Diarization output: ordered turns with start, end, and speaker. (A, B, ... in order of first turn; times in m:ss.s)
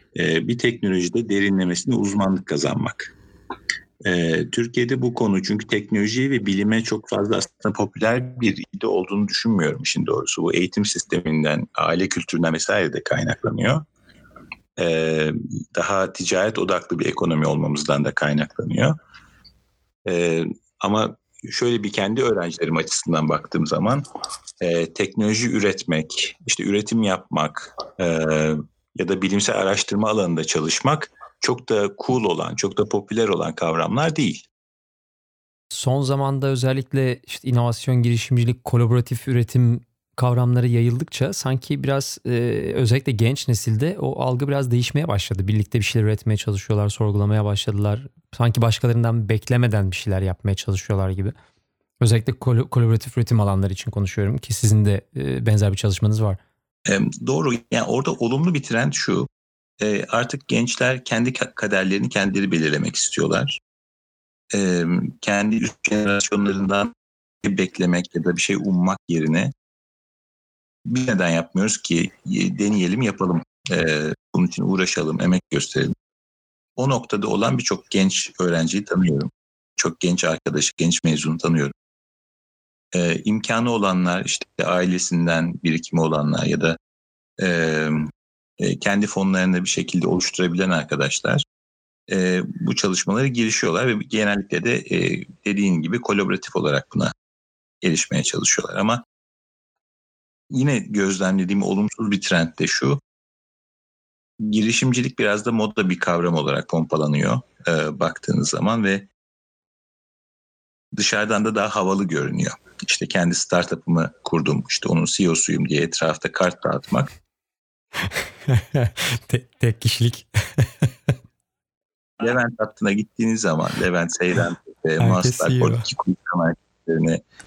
0:00.1-0:03.1 A
0:04.0-0:13.8 A
0:14.8-0:19.0 A
0:20.0-0:24.0 A
0:24.6-0:34.4 A
0:35.7-0:51.3 B
0:52.0-0:56.4 B
0:56.9-0:59.3 A
0:59.8-1:03.6 A
1:04.5-1:09.5 A
1:10.8-1:15.9 A
1:16.8-1:21.7 A
1:22.9-1:26.8 A
1:27.4-1:31.4 A
1:32.1-1:37.1 A
1:37.8-1:39.0 A
1:40.5-1:43.0 A
1:44.4-1:49.1 A
1:50.9-1:57.1 A
1:58.5-2:00.9 B
2:02.2-2:07.2 A
2:05.0-2:05.8 B